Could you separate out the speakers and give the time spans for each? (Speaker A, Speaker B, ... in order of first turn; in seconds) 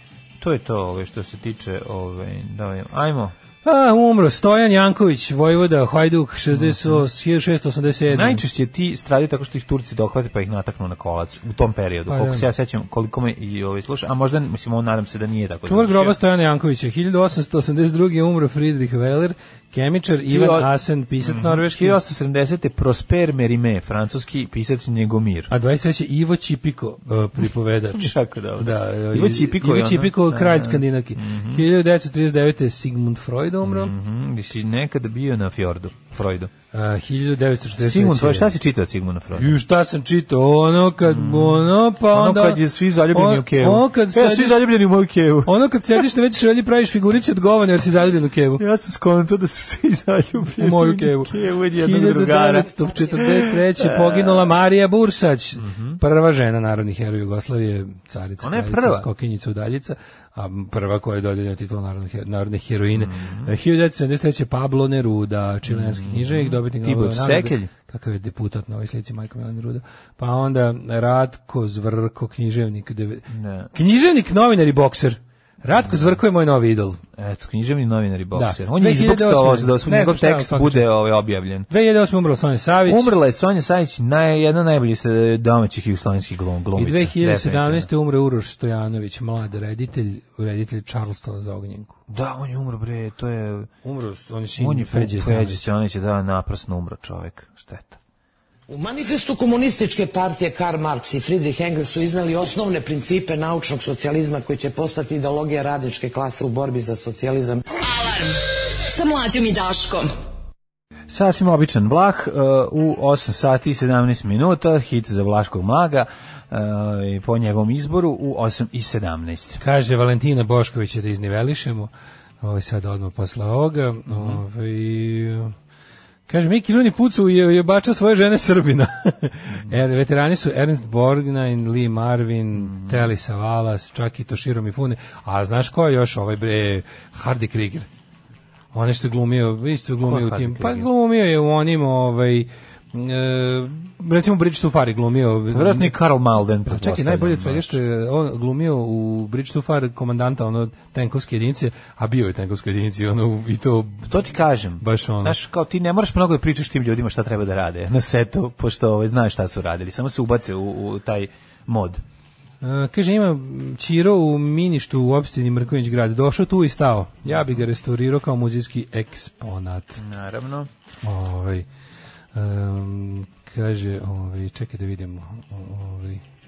Speaker A: 0.4-3.3, 6.5-7.0, 8.1-16.1, 20.3-20.7, 21.2-25.5, 27.9-31.6, 33.6-36.5, 37.8-39.6, 41.0-45.5, 48.6-54.5, 55.6-56.0, 58.4-59.1, 62.9-63.5, 65.7-67.7, 73.3-73.7, 75.8-76.2, 77.2-81.7, 82.8-87.9, 92.1-93.7, 94.6-98.0, 111.1-119.6, 124.1-124.4, 132.6-133.1, 140.0-140.9, 145.5-147.8, 154.1-162.0, 170.0-170.7
Speaker B: 3.6-8.4, 12.1-12.5, 15.7-22.0, 25.5-33.9, 36.7-38.5, 39.3-44.7, 45.4-48.6, 50.6-77.0, 78.3-80.9, 81.7-83.1, 86.8-92.0, 93.8-95.7, 119.6-121.9, 122.4-125.5, 126.3-137.9, 138.7-145.9, 146.7-154.2, 154.8-155.4, 162.6-170.0, 171.0-171.7, 172.3-176.2
Speaker C: 98.7-107.6
Speaker D: 107.8-110.1